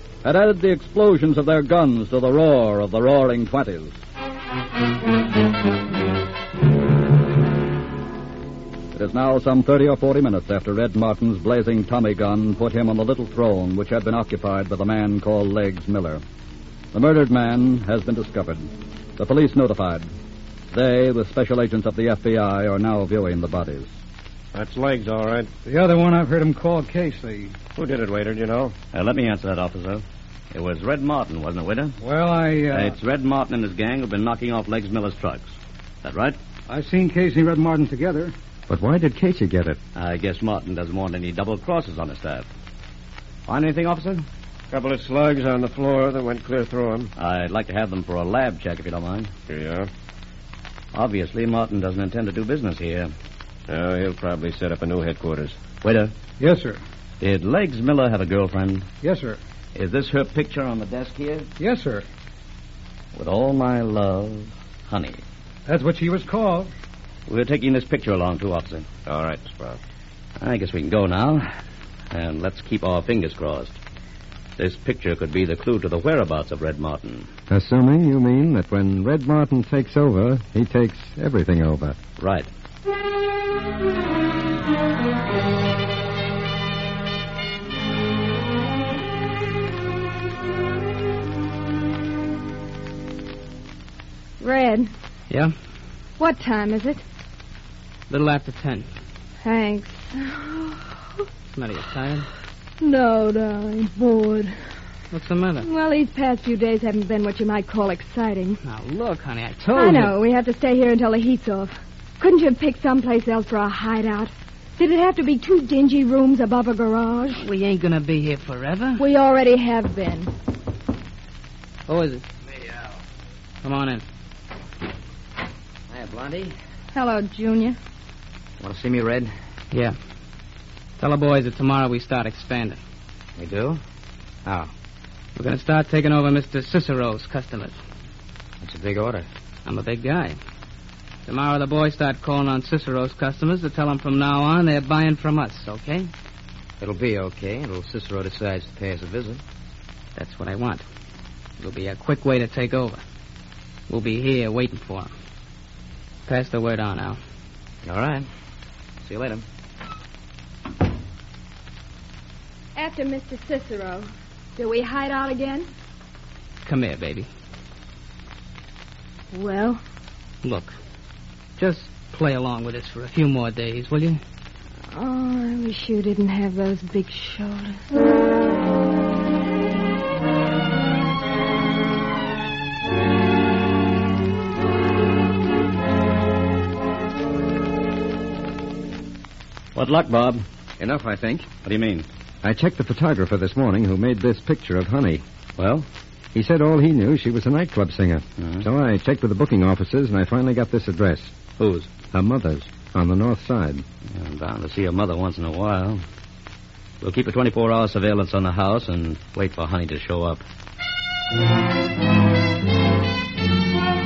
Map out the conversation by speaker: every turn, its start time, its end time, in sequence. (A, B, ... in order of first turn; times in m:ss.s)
0:00.2-0:04.0 A
0:08.9-0:16.2 A
0:16.9-0:20.1 A
0:20.7-0:23.9 A
0:24.5-0:25.5 B
0:25.6-0:27.6 C
0:27.8-0:28.7 B
0:28.9-0:31.9 D
0:32.0-0:33.0 C
0:32.7-0:36.4 D
0:36.7-0:38.3 C
0:38.7-0:39.8 E
0:39.9-0:42.4 D
0:43.5-0:44.2 D
0:44.7-0:47.1 B
0:47.2-0:49.3 D
0:49.5-0:49.9 B
0:50.9-0:53.1 D
0:53.7-0:55.6 B
0:55.8-0:56.1 D
0:56.4-0:56.8 C
0:57.2-0:58.9 D
0:59.0-0:59.4 C
0:59.7-1:01.5 D
1:01.6-1:02.0 C
1:03.1-1:05.2 D
1:05.7-1:06.7 C
1:07.3-1:08.8 D
1:09.1-1:09.8 B
1:10.4-1:11.5 D
1:12.1-1:13.8 D
1:14.6-1:17.3 D
1:17.5-1:22.0 E
1:22.2-1:22.5 D
1:34.4-1:34.9 F
1:36.2-1:37.0 F
1:38.1-1:38.9 G
1:39.4-1:41.2 F
1:41.5-1:42.3 G
1:42.8-1:44.5 F
1:45.1-1:45.6 G
1:45.6-1:48.6 F
1:48.6-1:50.1 G
1:49.7-1:57.4 F
1:57.4-1:59.0 G
1:59.0-2:00.3 F
2:01.9-2:02.2 G
2:03.6-2:04.0 G
2:05.9-2:06.5 H
2:06.9-2:07.8 F
2:08.6-2:09.3 H
2:09.7-2:10.0 G
2:11.0-2:12.8 G
2:13.4-2:13.8 H
2:14.4-2:14.7 H
2:15.4-2:17.8 G
2:18.6-2:19.3 H
2:19.6-2:20.4 G
2:21.3-2:26.1 G
2:26.8-2:29.4 H
2:30.1-2:30.9 G
2:31.6-2:33.0 G
2:33.9-2:35.1 G
2:36.3-2:37.2 G
2:37.8-2:38.3 H
2:39.0-2:39.4 H
2:42.8-2:45.7 F
2:46.6-2:47.3 G
2:49.3-2:49.8 F
2:50.4-2:50.8 G
2:51.6-2:54.2 G
2:54.9-2:57.8 F
3:09.7-3:10.4 D
3:10.8-3:11.5 E
3:11.6-3:12.0 D
3:12.4-3:15.2 E
3:15.6-3:15.9 D
3:16.3-3:21.3 E
3:18.4-3:18.7 D
3:21.6-3:22.0 D
3:22.0-3:23.8 E
3:24.1-3:26.0 D
3:27.0-3:30.4 D